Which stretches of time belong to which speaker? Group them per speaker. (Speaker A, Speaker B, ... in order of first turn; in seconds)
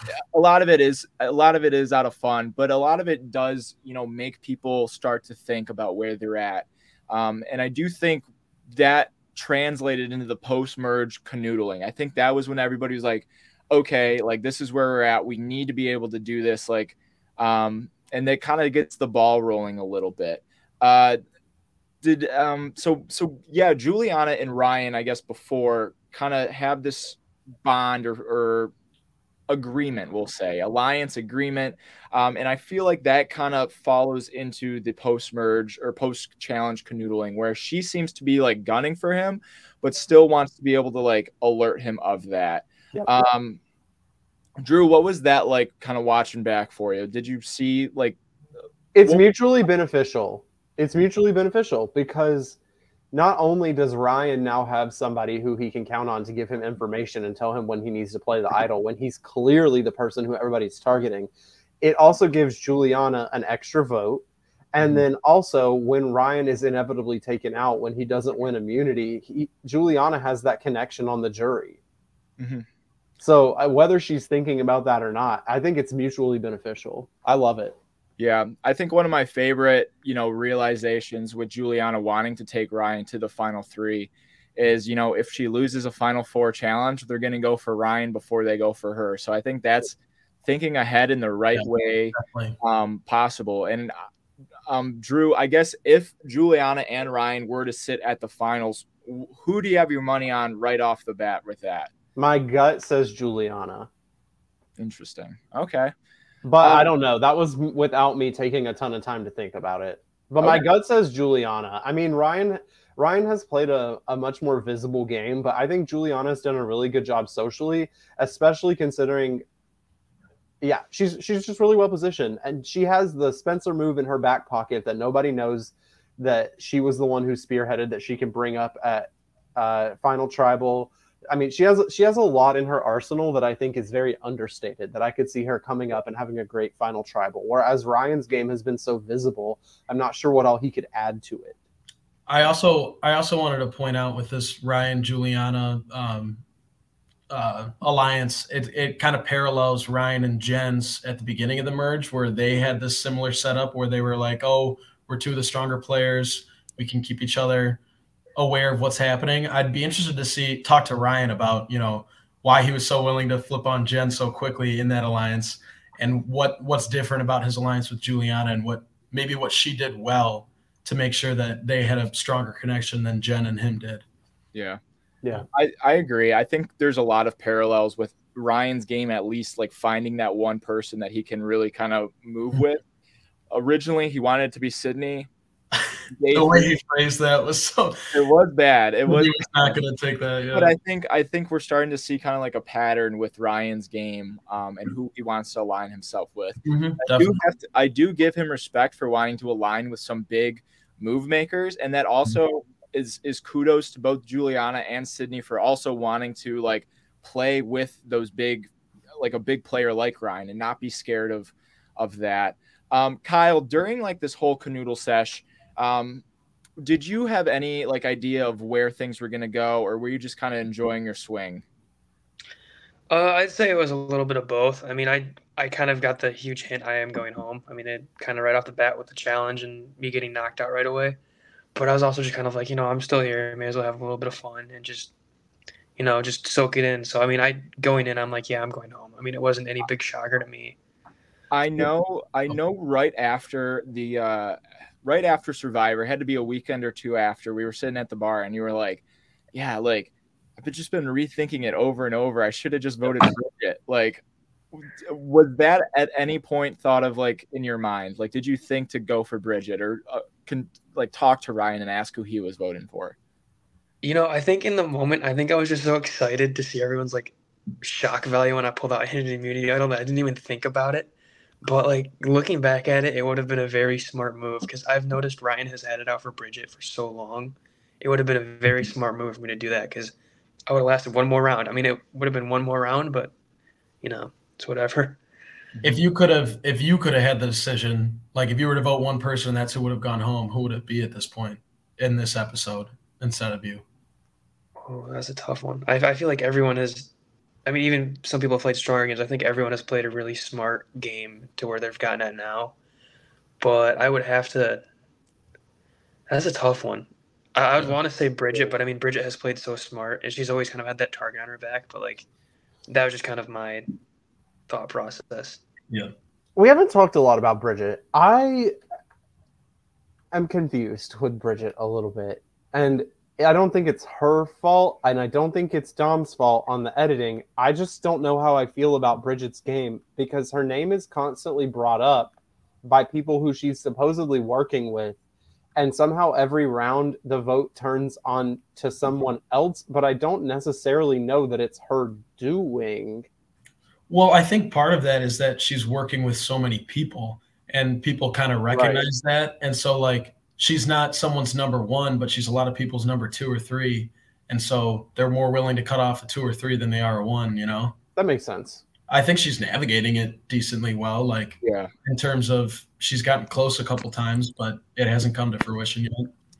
Speaker A: 0.3-21.2, 22.0-28.7, 29.5-43.6, 44.6-48.2, 72.4-72.7, 78.2-94.0, 94.7-101.9, 104.8-105.9, 106.6-106.9, 174.5-174.8, 175.5-182.8, 183.5-185.3, 186.1-186.7, 188.1-189.8, 190.5-216.2, 216.8-221.6, 241.5-249.0, 249.5-254.2, 254.7-263.1, 361.6-361.9
Speaker B: 42.9-43.2, 48.9-52.6, 53.1-61.3, 61.8-71.8, 73.2-77.8, 102.2-103.9, 106.4-119.4, 120.6-141.6, 316.6-318.7, 320.3-335.2, 335.8-343.3, 348.7-349.1, 358.2-358.8
Speaker C: 91.6-92.6, 142.3-146.4, 147.3-157.8, 158.4-174.0, 186.3-188.1, 189.1-190.8, 196.7-197.4, 285.8-293.8, 344.1-358.0, 359.1-366.3
Speaker D: 223.1-231.2, 231.8-235.1, 236.0-240.8, 264.0-271.1, 271.6-280.1, 280.7-283.3, 284.0-285.2, 294.9-297.1, 297.7-302.7, 303.6-304.8, 306.3-312.2, 312.9-313.9, 314.7-315.6